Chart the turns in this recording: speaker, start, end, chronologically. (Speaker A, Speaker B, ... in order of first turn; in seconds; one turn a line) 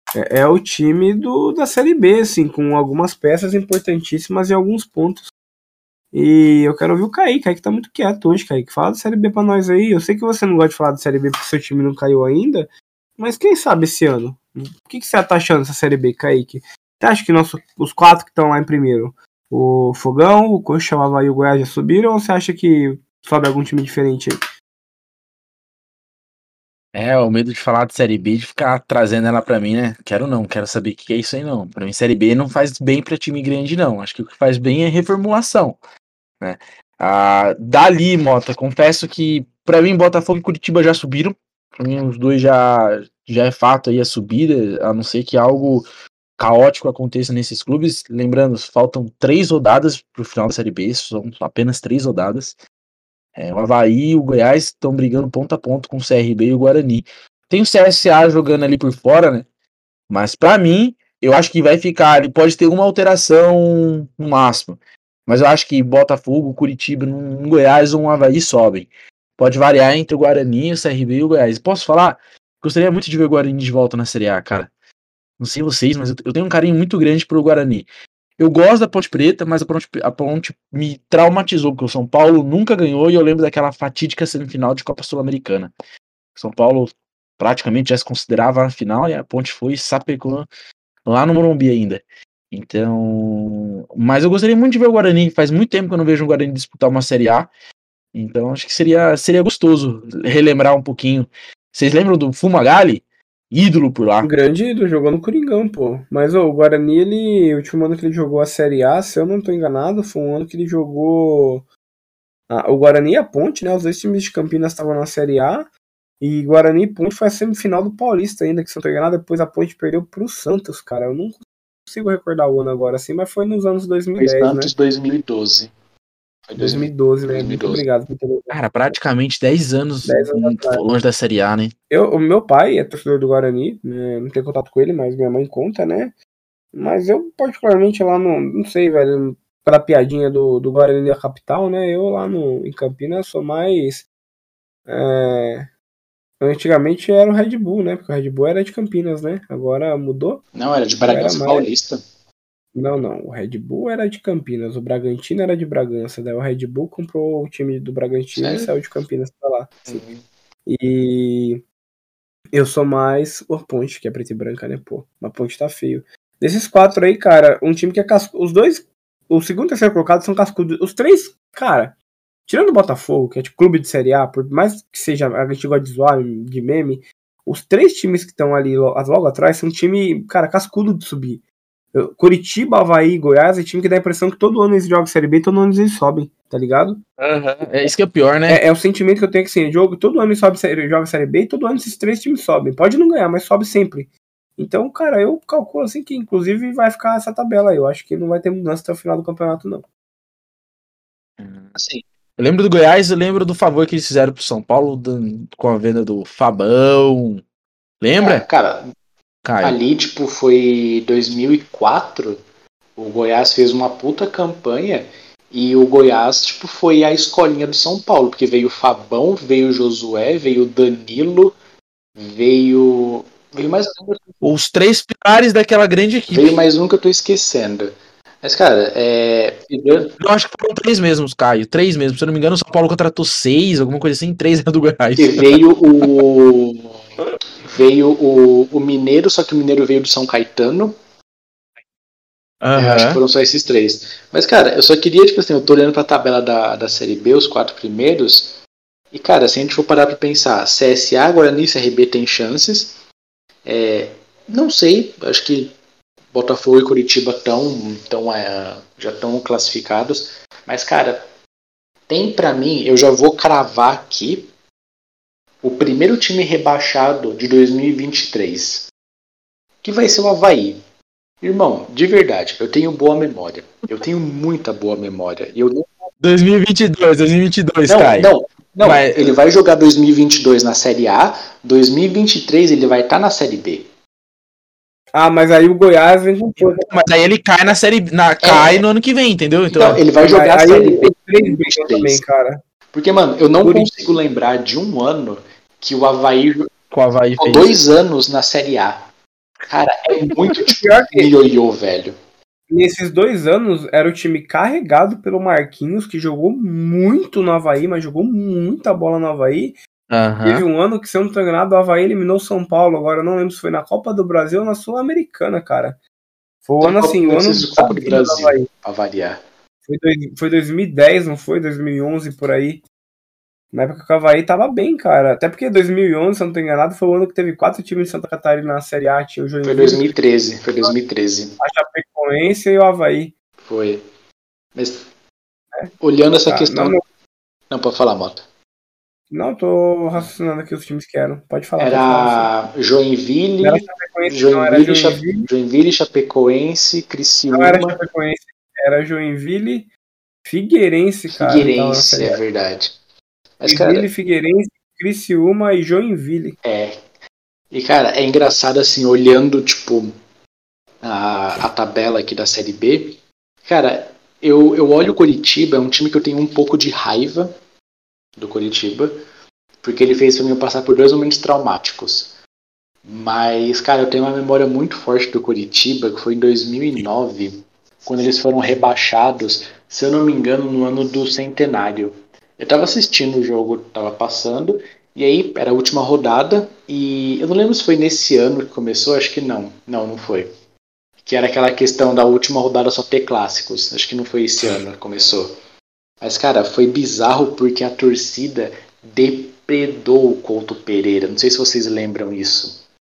Speaker A: 0.2-5.3
Speaker A: 6.1-24.4
Speaker B: 26.9-35.8
Speaker B: 36.4-45.9
Speaker B: 46.4-52.6
Speaker B: 53.4-59.5
Speaker B: 60.1-74.7
Speaker B: 75.4-77.9
Speaker B: 78.4-85.7
Speaker B: 86.4-90.5
Speaker B: 91.1-97.5
Speaker B: 98.1-104.3
Speaker A: 104.2-111.7
Speaker A: 112.5-115.7
Speaker A: 116.2-124.7
Speaker C: 124.2-125.7
Speaker C: 126.5-127.8
Speaker A: 126.6-128.6
Speaker B: 128.5-131.7
Speaker A: 130.1-130.8
Speaker A: 131.9-136.1
Speaker A: 136.7-144.1
Speaker A: 144.9-145.7
Speaker A: 146.4-150.4
Speaker C: 150.6-152.0
Speaker A: 151.1-151.7
Speaker A: 152.7-160.0
Speaker C: 158.3-158.7
Speaker C: 159.9-160.2
Speaker A: 160.7-161.6
Speaker A: 162.5-187.0
Speaker B: 187.2-188.6
Speaker A: 188.5-199.9
Speaker B: 201.4-201.7
Speaker C: 201.8-202.0
Speaker B: 202.4-207.4
Speaker B: 208.0-208.4
Speaker C: 208.2-208.8
Speaker B: 209.4-209.8
Speaker C: 209.6-212.4
Speaker C: 213.0-221.6
Speaker C: 222.2-224.4
Speaker B: 224.4-226.6
Speaker C: 226.3-230.2
Speaker B: 230.2-235.4
Speaker C: 235.2-236.9
Speaker C: 237.7-240.9
Speaker B: 242.6-243.2
Speaker C: 242.8-248.6
Speaker C: 249.1-253.0
Speaker C: 253.7-255.7
Speaker C: 256.3-261.2
Speaker C: 262.1-264.5
Speaker C: 265.6-268.9
Speaker C: 269.8-270.8
Speaker C: 271.4-276.1
Speaker B: 276.2-279.4
Speaker C: 277.9-283.9
Speaker A: 285.1-286.9
Speaker B: 286.7-290.0
Speaker C: 288.4-288.8
Speaker C: 289.7-292.2
Speaker A: 290.2-292.6
Speaker C: 292.9-296.7
Speaker A: 293.6-294.0
Speaker B: 296.9-297.8
Speaker C: 297.4-299.1
Speaker C: 299.7-302.1
Speaker A: 300.8-301.3
Speaker A: 302.7-309.8
Speaker B: 310.1-310.7
Speaker A: 310.4-316.0
Speaker A: 316.6-318.7
Speaker C: 316.8-319.4
Speaker A: 319.9-322.8
Speaker A: 323.7-330.1
Speaker C: 329.6-331.6
Speaker A: 331.6-333.3
Speaker C: 333.6-334.0
Speaker C: 334.8-335.1
Speaker C: 336.0-337.0
Speaker A: 336.5-337.0
Speaker C: 337.7-338.4
Speaker A: 339.3-342.5
Speaker C: 341.8-348.0
Speaker A: 343.6-345.5
Speaker A: 347.5-349.9
Speaker A: 350.4-352.4
Speaker C: 351.3-352.9
Speaker C: 353.6-354.1
Speaker A: 353.7-356.6
Speaker C: 356.6-357.0
Speaker C: 357.7-360.1
Speaker C: 361.0-367.5
Speaker C: 368.4-369.2
Speaker C: 369.8-372.4
Speaker C: 373.1-390.5
Speaker C: 391.2-395.5
Speaker C: 396.2-402.8